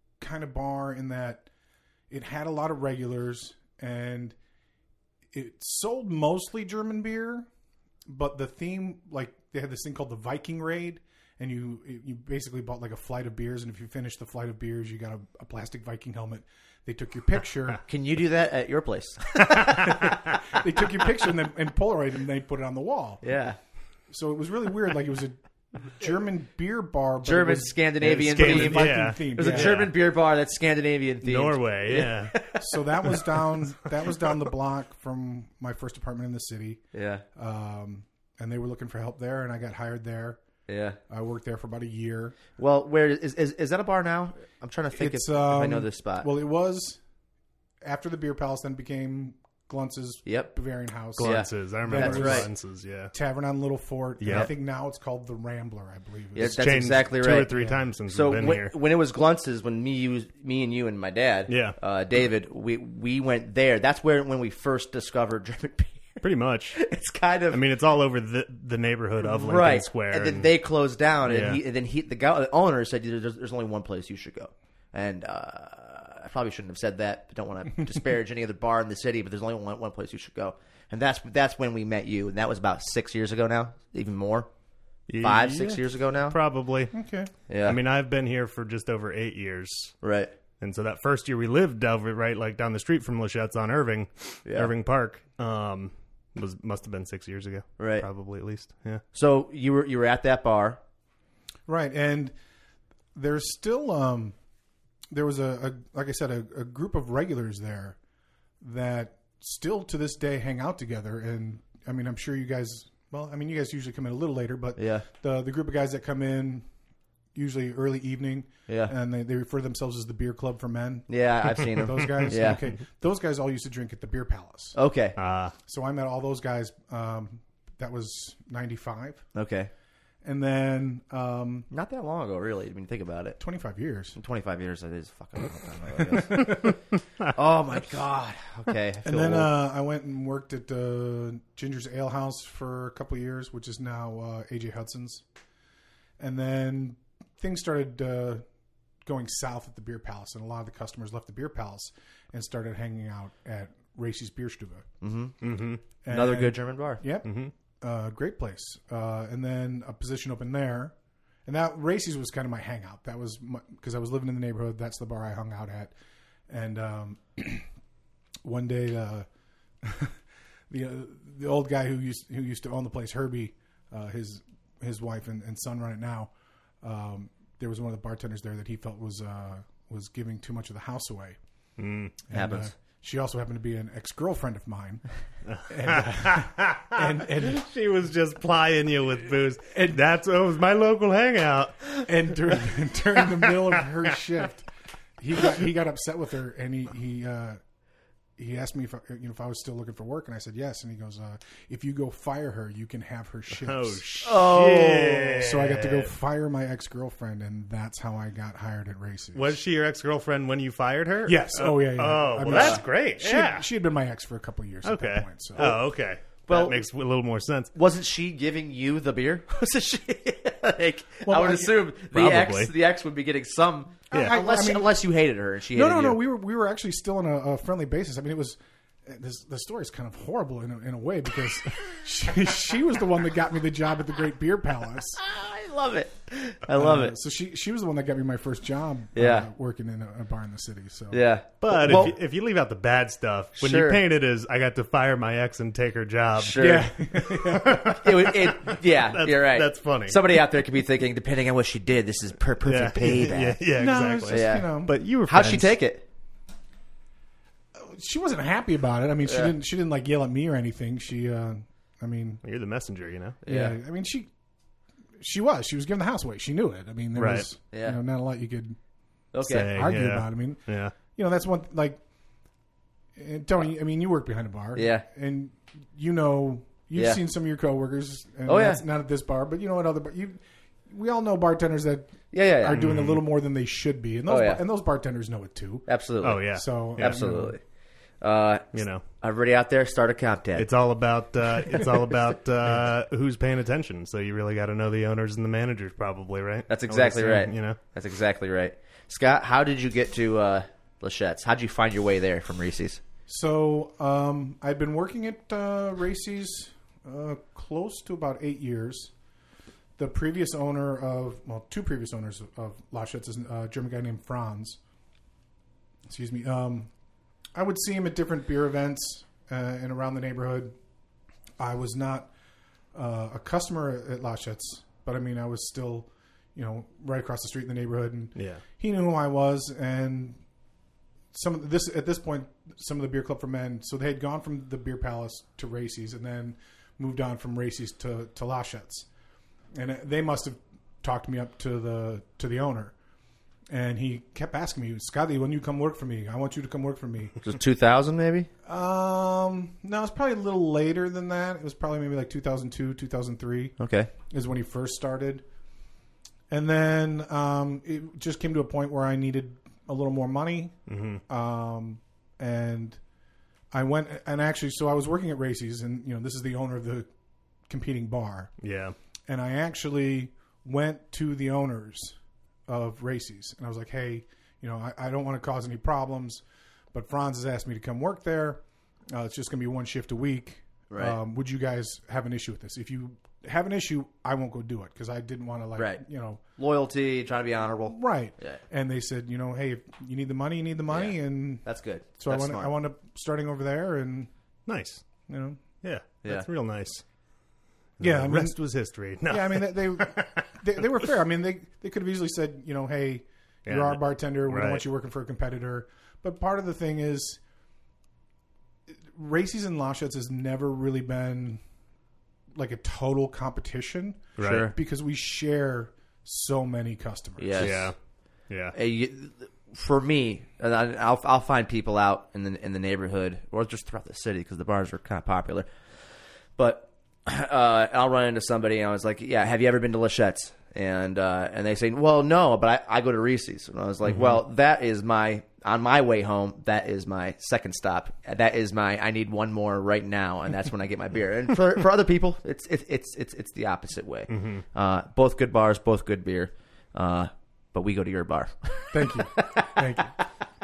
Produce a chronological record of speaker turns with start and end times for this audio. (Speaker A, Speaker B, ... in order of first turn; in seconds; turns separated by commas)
Speaker A: 0.2-1.5, Speaker A: 2.1-4.3, Speaker A: 5.3-7.5, Speaker A: 8.1-17.8, Speaker B: 17.9-20.2, Speaker C: 19.4-20.1, Speaker A: 20.0-23.2, Speaker B: 23.2-23.6, Speaker A: 24.1-29.8, Speaker B: 27.2-32.7, Speaker C: 28.0-29.9, Speaker C: 31.2-32.5, Speaker A: 32.6-36.8, Speaker B: 36.9-37.2, Speaker A: 37.3-40.4, Speaker B: 40.7-41.0, Speaker A: 41.1-42.4, Speaker B: 42.6-46.3, Speaker A: 45.0-47.0, Speaker A: 47.8-52.5, Speaker B: 50.2-50.5, Speaker C: 51.2-53.1, Speaker B: 51.2-52.5, Speaker A: 53.1-57.8, Speaker C: 54.2-54.5, Speaker B: 56.3-66.2, Speaker C: 56.4-58.7, Speaker C: 61.5-61.8, Speaker C: 66.2-66.8, Speaker B: 66.7-67.6, Speaker C: 67.5-70.5, Speaker B: 69.2-84.5, Speaker C: 71.2-71.6, Speaker C: 85.1-86.9, Speaker B: 85.2-86.4, Speaker A: 86.9-87.3, Speaker B: 87.5-87.8, Speaker C: 87.6-90.0, Speaker B: 90.0-90.3, Speaker C: 90.6-99.0, Speaker B: 94.4-94.7, Speaker B: 97.8-98.1, Speaker B: 99.1-100.8, Speaker A: 101.7-102.3, Speaker A: 103.1-104.3, Speaker A: 105.1-108.0, Speaker A: 108.6-116.7, Speaker B: 114.8-115.0, Speaker A: 117.3-124.8, Speaker B: 118.7-118.9, Speaker B: 121.1-122.6, Speaker B: 124.7-125.2, Speaker C: 125.2-125.5, Speaker A: 125.7-129.2, Speaker B: 129.3-129.7, Speaker A: 130.2-131.7, Speaker B: 131.7-133.4, Speaker A: 133.4-134.2, Speaker B: 134.2-139.5, Speaker A: 135.9-136.7, Speaker A: 139.0-145.2, Speaker A: 146.2-148.4, Speaker A: 149.0-154.9, Speaker B: 155.0-155.4, Speaker C: 155.4-155.8, Speaker A: 156.0-160.9, Speaker B: 156.1-157.0, Speaker C: 157.2-157.5, Speaker A: 161.4-165.9, Speaker A: 166.5-167.7, Speaker A: 168.4-169.3, Speaker A: 169.8-170.2, Speaker A: 170.7-181.4, Speaker C: 181.8-182.2, Speaker A: 182.3-185.0, Speaker B: 182.3-182.7, Speaker C: 185.5-192.6, Speaker A: 185.7-187.7, Speaker A: 189.7-190.0, Speaker A: 192.1-194.7, Speaker A: 195.2-197.6, Speaker A: 198.4-204.0, Speaker C: 203.6-206.1, Speaker B: 204.2-205.4, Speaker A: 205.4-209.6, Speaker C: 209.3-213.7, Speaker A: 211.2-215.7, Speaker B: 212.4-212.8, Speaker C: 214.8-217.7, Speaker B: 216.5-216.8, Speaker B: 217.7-226.2, Speaker A: 221.2-221.8, Speaker C: 222.1-222.7, Speaker A: 224.1-224.9, Speaker C: 224.1-224.4, Speaker A: 225.7-235.2, Speaker B: 235.2-237.1, Speaker A: 236.7-241.2, Speaker B: 239.1-239.5, Speaker B: 241.1-242.2, Speaker C: 241.6-250.6, Speaker B: 243.6-244.0, Speaker B: 246.4-246.9, Speaker A: 246.6-248.1, Speaker B: 247.8-253.6, Speaker C: 252.6-255.8, Speaker A: 253.7-254.9, Speaker B: 254.3-256.0, Speaker A: 257.8-262.4, Speaker B: 259.2-259.5, Speaker C: 262.4-263.4, Speaker B: 263.4-263.8, Speaker A: 263.4-264.3, Speaker A: 265.2-268.8, Speaker C: 267.1-267.5, Speaker B: 267.7-268.0, Speaker B: 269.3-269.7, Speaker C: 269.4-270.9, Speaker A: 269.4-272.0, Speaker A: 273.1-285.9, Speaker B: 274.7-275.0, Speaker B: 276.9-277.2, Speaker B: 278.4-278.8, Speaker B: 282.3-282.9, Speaker C: 282.7-283.2, Speaker B: 284.3-284.6, Speaker B: 285.9-287.6, Speaker C: 286.2-287.4, Speaker A: 286.4-287.5, Speaker B: 288.2-290.7, Speaker C: 288.7-289.0, Speaker C: 290.6-297.8, Speaker B: 296.7-303.0, Speaker A: 303.3-309.1, Speaker A: 310.0-314.8, Speaker A: 316.1-316.9, Speaker A: 317.5-320.8, Speaker A: 321.6-322.3, Speaker A: 322.9-330.4, Speaker C: 328.4-328.6, Speaker A: 331.3-339.1, Speaker A: 339.7-342.9, Speaker A: 343.7-347.4, Speaker B: 347.4-348.5, Speaker A: 348.6-353.8, Speaker B: 353.8-354.1, Speaker A: 354.3-355.4, Speaker A: 356.5-360.8, Speaker C: 360.9-361.2, Speaker A: 361.3-363.0, Speaker A: 363.7-367.1, Speaker A: 367.7-368.5, Speaker C: 368.6-368.9, Speaker A: 369.3-372.2, Speaker A: 372.7-386.4, Speaker B: 380.9-381.2, Speaker B: 385.8-386.0, Speaker B: 386.6-388.6, Speaker A: 387.9-391.6, Speaker B: 390.9-392.7, Speaker A: 392.2-394.3, Speaker C: 394.7-395.0, Speaker A: 395.3-395.6, Speaker C: 395.8-397.0, Speaker C: 398.0-400.6, Speaker A: 398.0-398.6, Speaker A: 399.2-407.4, Speaker C: 403.6-404.8, Speaker A: 409.1-411.6, Speaker A: 412.5-417.8, Speaker C: 414.4-414.7, Speaker B: 414.4-414.7, Speaker B: 417.4-417.9, Speaker C: 417.6-417.9, Speaker C: 418.5-418.7, Speaker B: 418.7-425.7, Speaker B: 426.6-449.8, Speaker C: 434.1-434.4, Speaker C: 444.3-444.6, Speaker A: 448.9-450.1